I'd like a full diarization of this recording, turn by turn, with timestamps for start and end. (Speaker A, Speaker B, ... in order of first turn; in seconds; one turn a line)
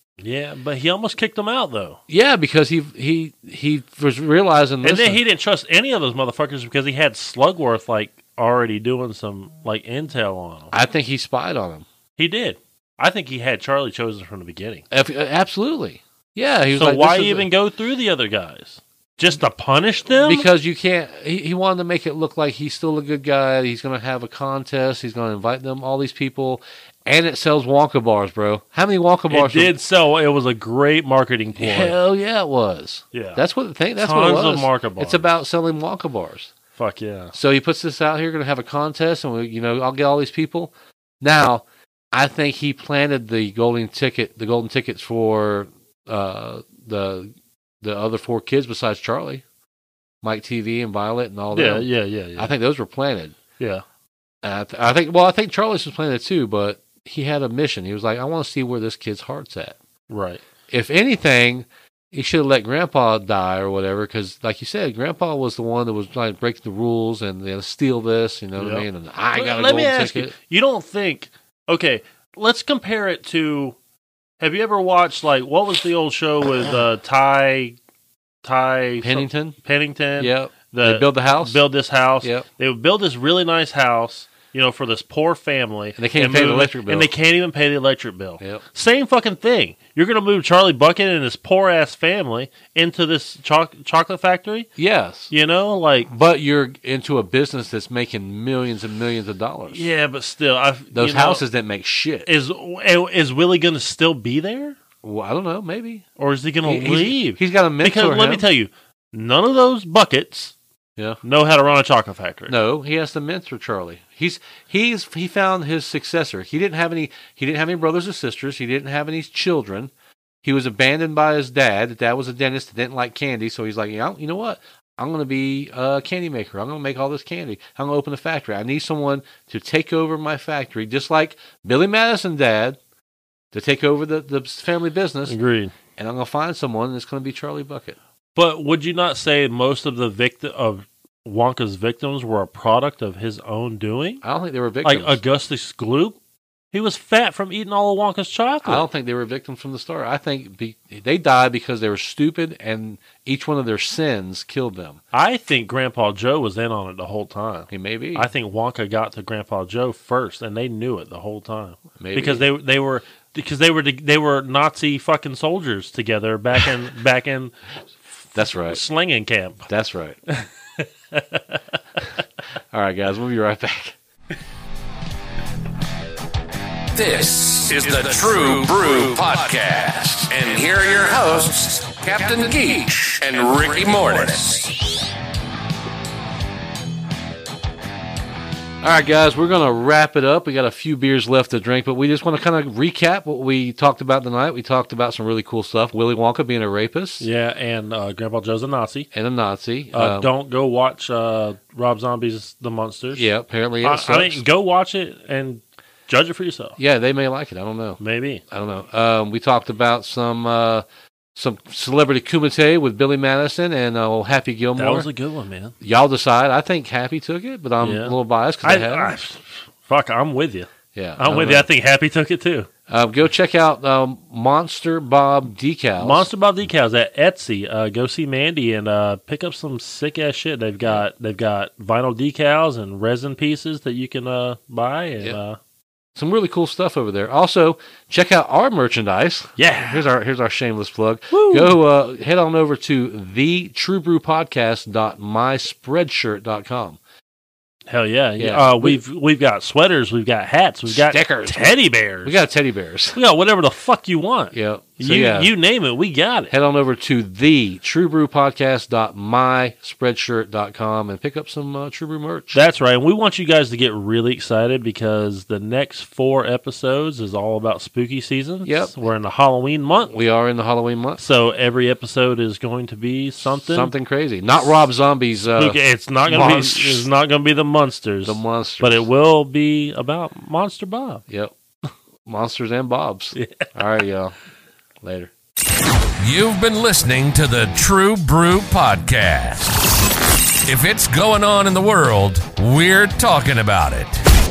Speaker A: 0.2-2.0
Speaker B: 2.1-5.2
Speaker A: 4.8-10.7
Speaker B: 10.7-11.8
Speaker A: 12.2-14.8
Speaker B: 14.9-17.5
Speaker A: 16.7-20.5
Speaker B: 20.2-29.7
Speaker A: 29.3-31.9
Speaker B: 31.5-36.5
Speaker A: 33.1-33.4
Speaker A: 34.0-35.3
Speaker A: 36.8-37.3
Speaker B: 37.3-49.4
Speaker B: 50.2-53.4
Speaker A: 51.5-52.5
Speaker A: 53.6-53.8
Speaker B: 54.4-59.8
Speaker A: 60.1-60.4
Speaker B: 60.7-70.3
Speaker A: 68.6-73.8
Speaker A: 74.4-77.8
Speaker A: 78.4-94.7
Speaker B: 79.0-79.5
Speaker B: 80.2-81.6
Speaker B: 86.0-87.1
Speaker B: 94.8-95.3
Speaker A: 95.3-96.1
Speaker B: 96.1-99.9
Speaker A: 99.7-101.4
Speaker B: 100.9-102.3
Speaker A: 102.2-104.8
Speaker B: 105.0-106.0
Speaker A: 106.2-110.5
Speaker B: 106.6-108.4
Speaker A: 111.2-112.5
Speaker B: 112.5-119.9
Speaker B: 120.4-132.8
Speaker B: 133.5-135.3
Speaker A: 135.3-135.7
Speaker B: 135.9-138.0
Speaker A: 138.3-144.2
Speaker B: 144.2-145.2
Speaker A: 144.8-146.2
Speaker A: 146.7-148.8
Speaker B: 148.6-155.0
Speaker A: 155.1-167.5
Speaker B: 157.7-158.3
Speaker B: 162.0-162.4
Speaker A: 168.1-169.7
Speaker B: 168.3-168.8
Speaker B: 169.7-170.2
Speaker A: 170.3-172.0
Speaker B: 172.7-173.9
Speaker C: 176.9-184.7
Speaker B: 188.8-197.2
Speaker A: 197.2-199.1
Speaker B: 199.1-200.3
Speaker A: 199.9-203.3
Speaker B: 203.1-204.4
Speaker A: 203.8-206.8
Speaker B: 206.8-208.0
Speaker A: 208.0-208.4
Speaker B: 208.5-215.1
Speaker A: 214.8-215.7
Speaker B: 215.8-219.1
Speaker A: 217.8-222.7
Speaker B: 220.9-221.7
Speaker B: 222.9-226.3
Speaker A: 226.0-235.6
Speaker B: 236.1-247.0
Speaker A: 239.6-240.0
Speaker A: 241.3-241.7
Speaker A: 247.9-252.4
Speaker B: 248.4-249.0
Speaker B: 250.9-253.2
Speaker A: 253.1-256.5
Speaker B: 254.5-255.5
Speaker B: 256.5-262.6
Speaker A: 262.5-270.1
Speaker B: 268.6-268.9
Speaker B: 270.1-271.2
Speaker A: 271.2-273.9
Speaker B: 273.6-277.1
Speaker A: 275.5-281.2
Speaker B: 278.2-279.1
Speaker B: 281.3-281.5
Speaker B: 282.2-284.3
Speaker A: 283.3-283.7
Speaker B: 285.0-285.3
Speaker C: 286.2-289.8
Speaker C: 290.6-294.2